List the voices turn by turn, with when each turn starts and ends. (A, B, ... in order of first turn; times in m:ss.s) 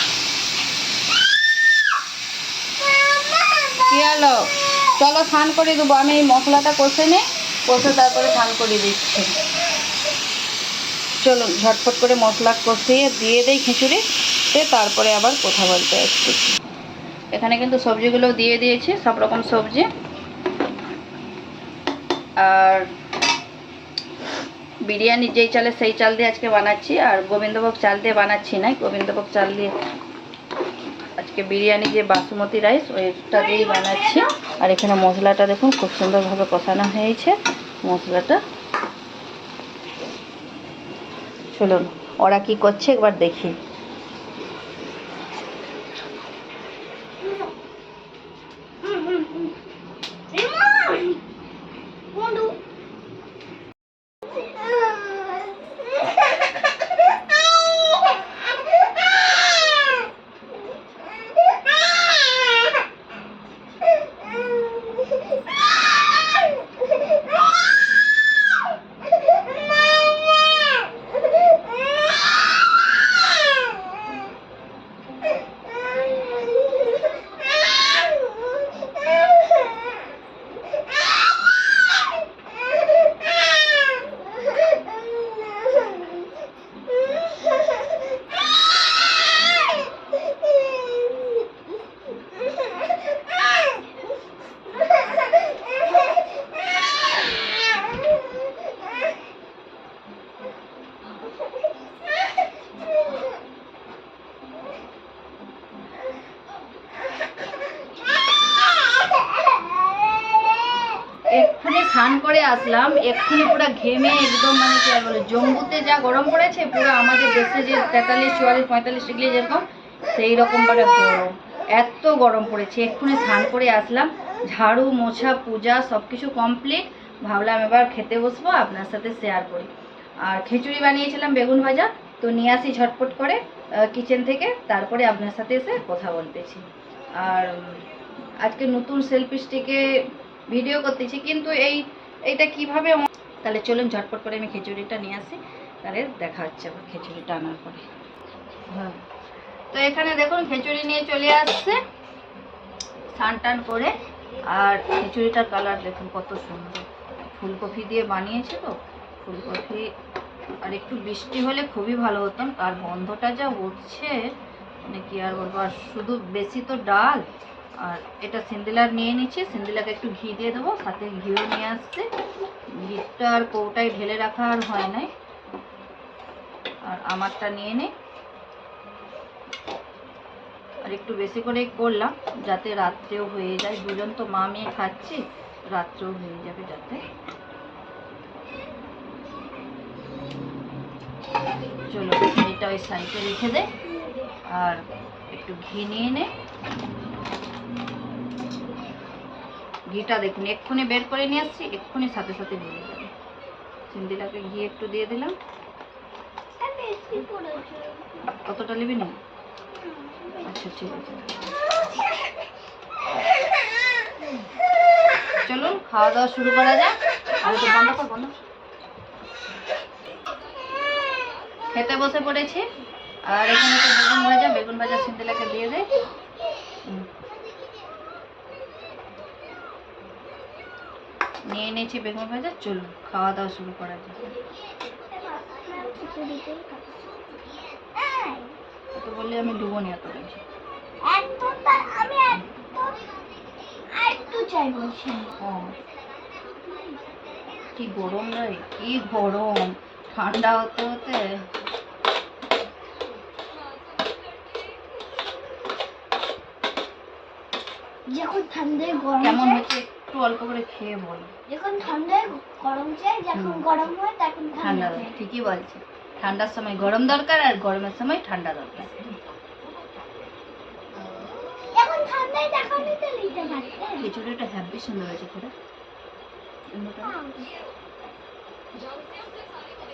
0:03.7-0:09.4 A
0:11.2-0:16.6 A
0:17.3-0:19.9 A
0:22.4-0:22.9 A
0:24.8-0:29.7 A
0:31.2-0:38.4 A
0:41.5-0:43.6 A
0:47.2-0:47.5 B
0:48.8-0:49.5 B
0:50.3-0:51.2 B
0:52.1-0:52.6 B
0:54.4-0:55.6 B
1:51.3-2:09.7 A
2:10.2-2:16.6 A
2:17.2-2:17.9 A
2:18.4-2:19.8 A
2:20.5-2:27.8 A
2:28.7-2:29.0 A
2:29.7-2:31.8 A
2:33.1-2:33.9 A
2:34.5-2:39.9 A
2:40.6-2:44.3 A
2:44.8-2:47.2 A
2:47.8-2:52.0 A
2:52.7-2:55.1 A
2:56.8-2:57.9 A
3:00.8-3:07.0 A
3:11.9-3:13.7 A
3:14.5-3:16.3 A
3:19.9-3:23.1 A
3:23.9-3:25.3 A
3:26.6-3:28.0 B
3:28.4-3:29.2 A
3:30.0-3:30.4 B
3:30.4-3:31.4 A
3:35.4-3:38.4 A
3:41.7-3:42.6 A
3:43.3-3:45.9 A
3:51.5-3:54.2 A
3:55.0-3:58.6 B
3:58.9-4:00.4 A
4:01.0-4:03.1 B
4:03.9-4:05.4 B
4:05.4-4:05.7 A
4:07.7-4:11.4 A
4:18.1-4:19.7 B
4:19.2-4:21.3 A
4:21.5-4:25.1 B
4:23.3-4:23.8 A
4:24.6-4:29.1 A
4:31.5-4:34.1 B
4:34.0-4:35.5 A
4:36.7-4:37.2 A